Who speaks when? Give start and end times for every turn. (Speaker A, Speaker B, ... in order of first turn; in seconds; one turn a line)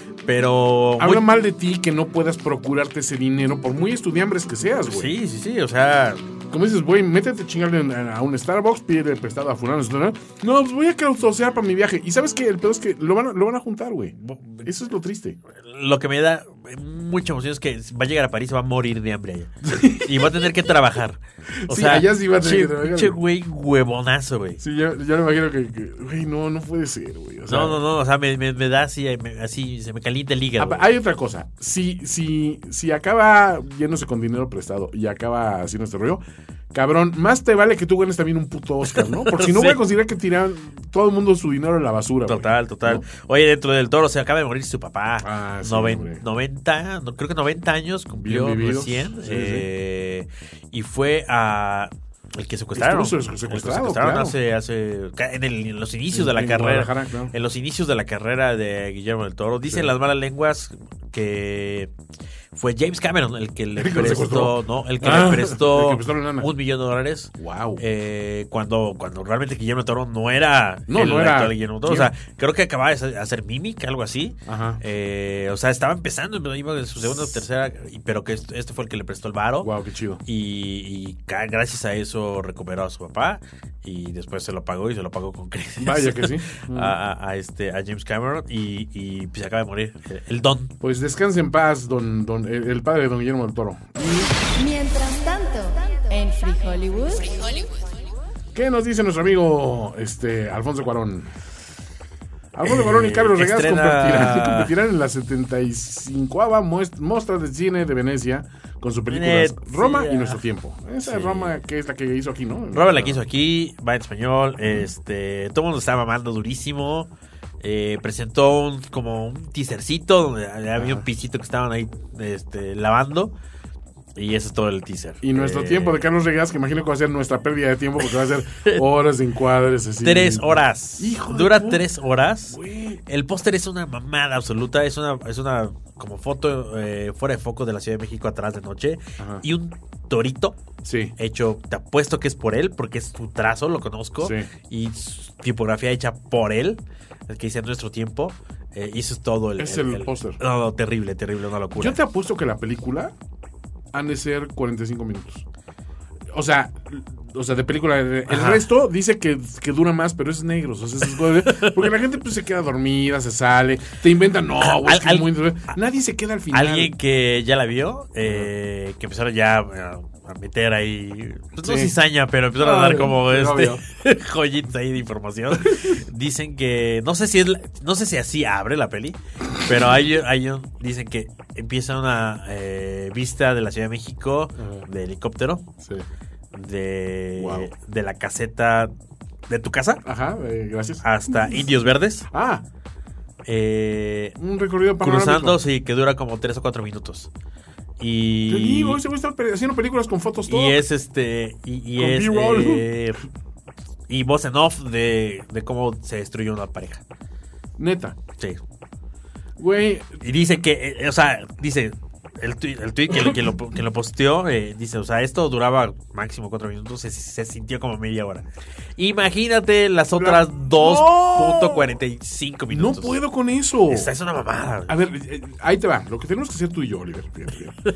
Speaker A: 0.3-1.3
Speaker B: 1.0-5.1
Speaker A: 4.9-6.2
Speaker B: 6.5-15.4
Speaker A: 14.2-14.6
Speaker A: 15.6-24.6
Speaker B: 19.6-20.5
Speaker B: 21.6-23.2
Speaker B: 24.6-27.8
Speaker A: 27.5-30.8
Speaker B: 30.6-43.0
Speaker A: 38.9-39.8
Speaker A: 42.3-61.9
Speaker B: 45.2-46.2
Speaker B: 48.1-49.7
Speaker B: 52.7-54.4
Speaker B: 56.1-57.3
Speaker B: 59.7-59.9
Speaker A: 62.5-79.7
Speaker B: 63.8-66.5
Speaker B: 67.4-67.8
Speaker B: 70.9-72.1
Speaker B: 74.5-74.8
Speaker B: 77.0-77.4
Speaker B: 79.6-80.2
Speaker A: 80.2-90.7
Speaker B: 85.8-87.0
Speaker B: 90.8-94.3
Speaker C: 94.5-97.6
Speaker B: 98.5-101.3
Speaker B: 102.5-113.2
Speaker A: 102.6-104.7
Speaker A: 109.1-110.4
Speaker A: 111.0-111.6
Speaker A: 112.7-117.1
Speaker A: 117.6-123.3
Speaker B: 120.8-121.0
Speaker A: 124.2-126.0
Speaker B: 125.2-131.9
Speaker A: 130.0-140.6
Speaker B: 132.5-133.0
Speaker B: 139.2-139.4
Speaker B: 140.8-141.1
Speaker A: 141.2-152.0
Speaker B: 144.2-144.5
Speaker B: 149.6-150.4
Speaker B: 151.7-153.1
Speaker B: 153.9-155.4
Speaker B: 156.3-166.9
Speaker A: 158.3-158.7
Speaker A: 161.4-161.8
Speaker A: 164.6-165.7
Speaker A: 166.5-185.7
Speaker B: 168.2-168.5
Speaker B: 171.6-172.0
Speaker B: 172.6-173.8
Speaker B: 175.7-175.9
Speaker B: 184.6-184.9
Speaker B: 185.8-186.1
Speaker A: 186.5-188.9
Speaker B: 187.4-187.7
Speaker A: 189.5-190.0
Speaker B: 190.1-191.7
Speaker A: 191.0-192.3
Speaker B: 192.3-192.7
Speaker A: 193.4-194.4
Speaker B: 194.4-195.6
Speaker A: 195.0-197.3
Speaker A: 198.0-199.0
Speaker B: 198.5-200.8
Speaker A: 200.5-203.2
Speaker B: 201.9-202.9
Speaker A: 204.1-207.0
Speaker B: 207.8-208.2
Speaker B: 209.6-210.2
Speaker A: 210.2-218.4
Speaker B: 213.1-213.4
Speaker A: 219.0-223.2
Speaker B: 220.2-222.0
Speaker B: 222.7-224.1
Speaker A: 223.9-224.9
Speaker B: 224.9-227.8